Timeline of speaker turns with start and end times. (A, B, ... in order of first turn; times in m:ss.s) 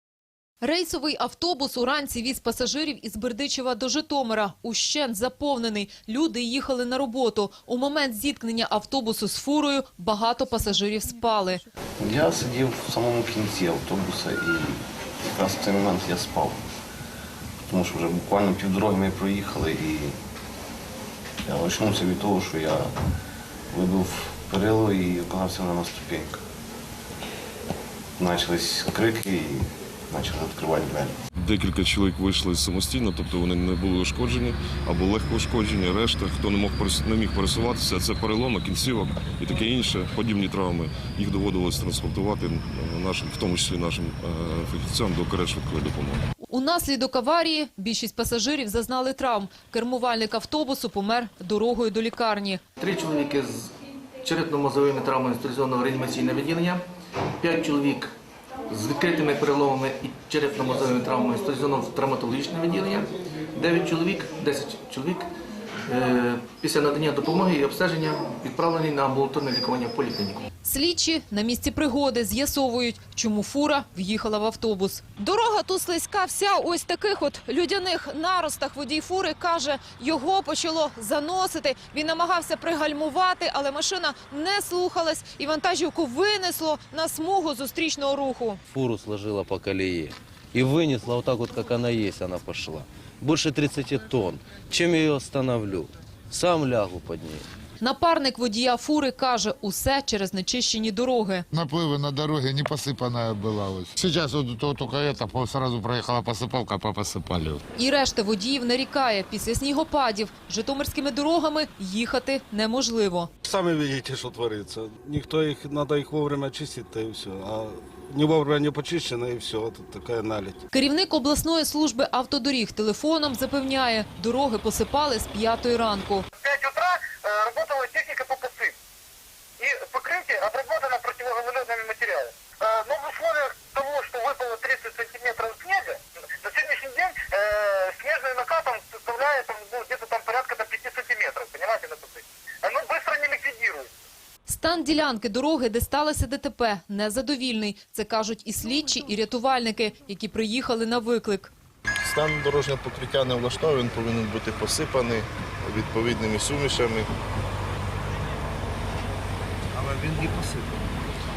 0:00.6-0:11.6 A
0:12.0-0:16.6 B
0:17.7-0:20.2 B
0:21.4-0:22.9 B
0:23.7-0:26.4 B
0:28.2-0:31.2 B
0:31.4-0:46.2 C
0:46.5-0:52.6 A
0:52.8-0:53.7 D
0:54.2-0:56.8 D
0:57.4-0:58.1 D
0:58.7-1:05.2 D
1:05.9-1:10.4 D
1:10.6-1:28.6 A
1:28.7-1:37.4 E
1:37.8-1:41.4 A
1:41.5-1:47.6 F
1:47.8-1:53.3 A
1:53.4-2:00.6 G
2:00.7-2:06.3 A
2:06.4-2:08.8 H
2:09.6-2:23.9 H
2:24.5-2:31.5 A
2:32.0-2:37.1 I